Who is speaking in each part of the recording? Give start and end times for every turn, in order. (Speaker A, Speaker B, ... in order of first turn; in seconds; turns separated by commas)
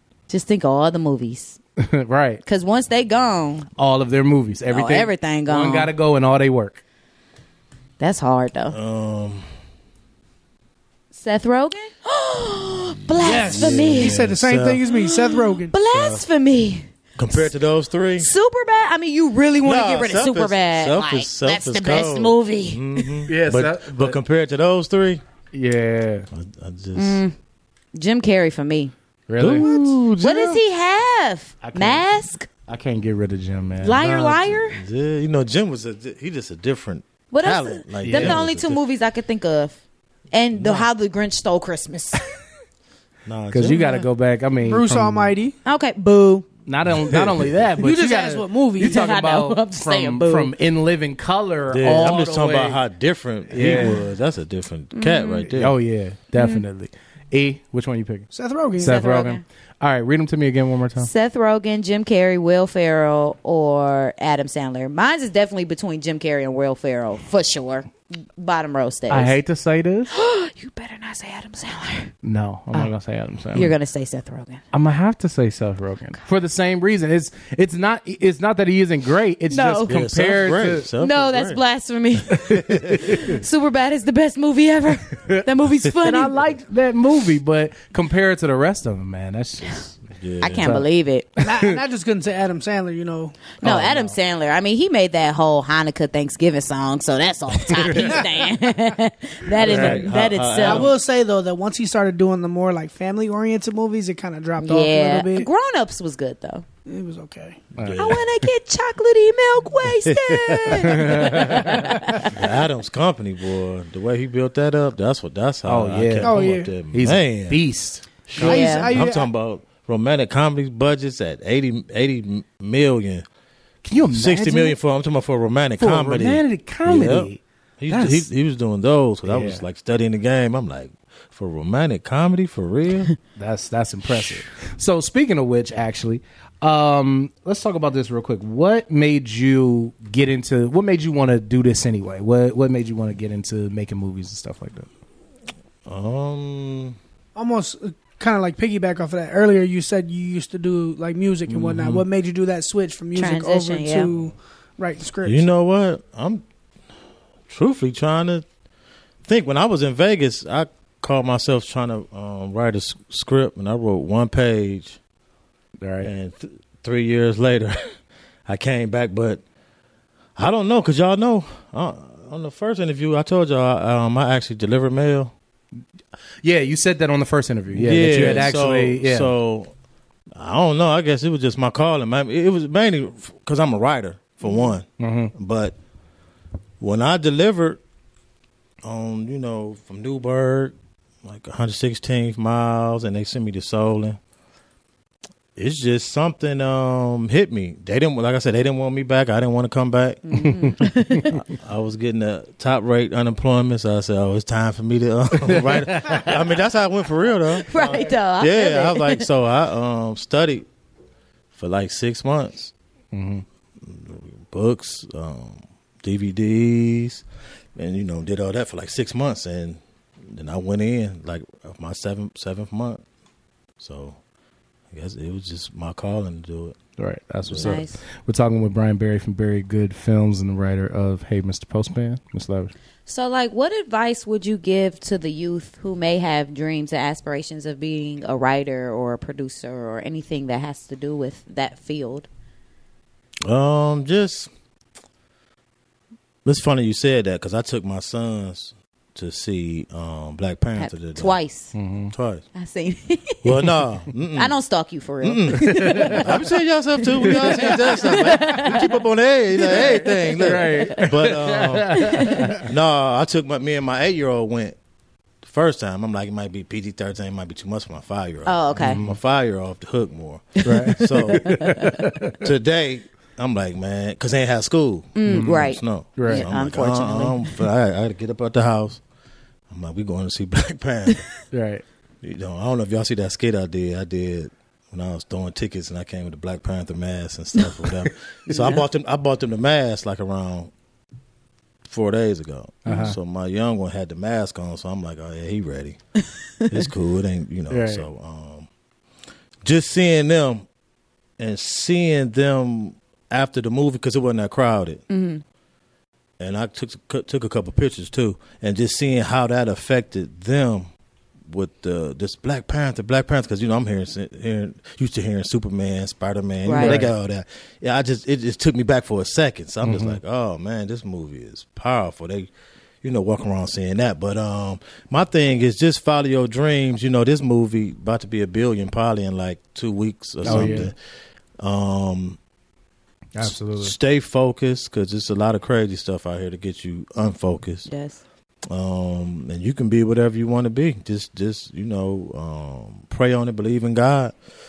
Speaker A: 0.3-1.6, Speaker B: 1.8-2.4, Speaker A: 2.4-3.7, Speaker B: 3.8-6.8, Speaker A: 4.7-5.9, Speaker A: 8.0-8.8, Speaker C: 8.7-9.5, Speaker A: 11.1-14.2, Speaker D: 13.2-15.7, Speaker C: 13.4-14.8, Speaker A: 14.9-17.5, Speaker C: 15.9-16.2, Speaker C: 17.2-18.3, Speaker A: 18.2-23.2, Speaker C: 19.6-25.2, Speaker B: 23.3-24.2, Speaker B: 25.5-26.3, Speaker C: 26.3-27.2, Speaker A: 26.9-27.3, Speaker A: 27.9-28.9, Speaker B: 29.3-29.7, Speaker C: 29.4-30.6, Speaker A: 29.6-32.5, Speaker B: 31.6-32.1, Speaker B: 32.6-34.2, Speaker A: 33.8-34.8, Speaker C: 34.0-38.8, Speaker A: 37.3-39.8, Speaker B: 38.0-38.4, Speaker A: 40.3-42.2, Speaker C: 40.5-40.9, Speaker C: 43.3-44.0, Speaker B: 43.5-45.3, Speaker D: 44.6-45.6, Speaker A: 45.6-46.5, Speaker B: 46.7-52.8, Speaker C: 46.9-47.6, Speaker D: 47.8-49.0, Speaker A: 48.8-50.5, Speaker C: 51.7-55.8, Speaker B: 53.5-54.0, Speaker A: 54.9-55.5, Speaker B: 55.5-61.1, Speaker A: 56.4-56.6, Speaker D: 58.3-59.0, Speaker A: 58.8-59.4, Speaker A: 61.0-69.4, Speaker B: 69.1-70.1, Speaker A: 70.1-72.1, Speaker B: 72.2-73.7, Speaker A: 73.5-74.6, Speaker B: 74.7-80.9, Speaker A: 79.5-80.0, Speaker C: 79.9-81.6, Speaker A: 81.0-86.4, Speaker C: 82.3-83.2, Speaker B: 86.0-90.0, Speaker C: 90.2-90.8, Speaker A: 90.4-91.3, Speaker B: 91.4-91.8, Speaker D: 91.4-93.3, Speaker A: 93.6-101.0, Speaker B: 93.6-94.2, Speaker C: 99.6-100.9, Speaker B: 99.7-100.1, Speaker D: 100.6-105.5, Speaker A: 104.6-106.7, Speaker D: 106.9-107.6, Speaker B: 107.8-108.1, Speaker C: 107.8-108.4, Speaker A: 108.0-112.4, Speaker C: 110.0-111.2, Speaker B: 110.8-112.0, Speaker C: 112.3-117.6, Speaker B: 115.7-118.6, Speaker D: 116.2-116.7, Speaker C: 118.3-123.2, Speaker D: 118.4-119.3, Speaker A: 118.4-119.0, Speaker B: 123.8-124.8, Speaker C: 124.1-133.1, Speaker B: 125.8-128.3, Speaker B: 129.2-129.6, Speaker B: 133.4-144.9, Speaker C: 145.9-147.0, Speaker D: 147.3-155.4, Speaker C: 151.5-152.0, Speaker B: 151.7-152.0, Speaker A: 153.1-154.1, Speaker C: 155.2-156.4, Speaker C: 157.5-158.5, Speaker C: 159.2-165.0, Speaker B: 165.8-166.1, Speaker C: 166.0-167.8, Speaker C: 168.5-169.4, Speaker C: 170.4-175.3, Speaker B: 176.4-179.3, Speaker C: 177.7-179.7, Speaker C: 180.3-185.8, Speaker A: 184.4-184.7, Speaker B: 185.0-185.3, Speaker C: 186.8-187.8, Speaker C: 188.8-194.2, Speaker C: 195.6-200.5, Speaker A: 200.3-201.4, Speaker B: 200.4-201.3, Speaker C: 201.6-210.7, Speaker B: 205.4-206.4, Speaker A: 207.7-209.2, Speaker C: 211.6-212.7, Speaker B: 213.1-213.4, Speaker C: 213.8-217.2, Speaker C: 217.8-223.0, Speaker C: 223.8-224.2, Speaker C: 224.9-226.8, Speaker B: 227.0-232.7, Speaker C: 227.4-227.8, Speaker A: 227.6-228.0, Speaker A: 233.1-242.3, Speaker C: 243.4-244.5, Speaker C: 246.4-251.4, Speaker A: 250.8-251.8, Speaker B: 251.7-252.1, Speaker C: 252.1-252.4, Speaker A: 252.6-253.6, Speaker C: 253.4-254.6, Speaker A: 254.3-256.4, Speaker C: 255.2-264.8, Speaker B: 255.6-256.3, Speaker A: 257.1-258.9, Speaker B: 257.3-258.6, Speaker A: 259.6-261.0, Speaker B: 260.4-262.6, Speaker A: 262.1-262.5, Speaker C: 265.4-271.8, Speaker A: 268.5-269.0, Speaker B: 268.8-269.2, Speaker B: 270.6-272.4, Speaker A: 270.7-271.9, Speaker C: 272.4-279.0, Speaker A: 275.2-277.5, Speaker B: 275.3-275.6, Speaker B: 276.2-276.5, Speaker C: 279.7-281.3, Speaker B: 281.5-281.8, Speaker C: 282.2-290.7, Speaker C: 291.9-296.0, Speaker B: 292.9-293.2, Speaker C: 296.7-298.7, Speaker B: 297.7-298.1, Speaker C: 299.6-300.7, Speaker C: 301.4-305.0, Speaker A: 305.1-305.4, Speaker C: 306.4-310.9, Speaker C: 311.5-322.5, Speaker A: 316.6-317.0, Speaker B: 316.8-317.1, Speaker B: 319.8-320.2, Speaker C: 323.0-330.9, Speaker B: 330.4-330.9, Speaker A: 330.5-330.7, Speaker C: 331.6-332.4, Speaker B: 333.4-333.9, Speaker C: 333.4-337.9, Speaker A: 337.9-338.2, Speaker C: 338.7-344.4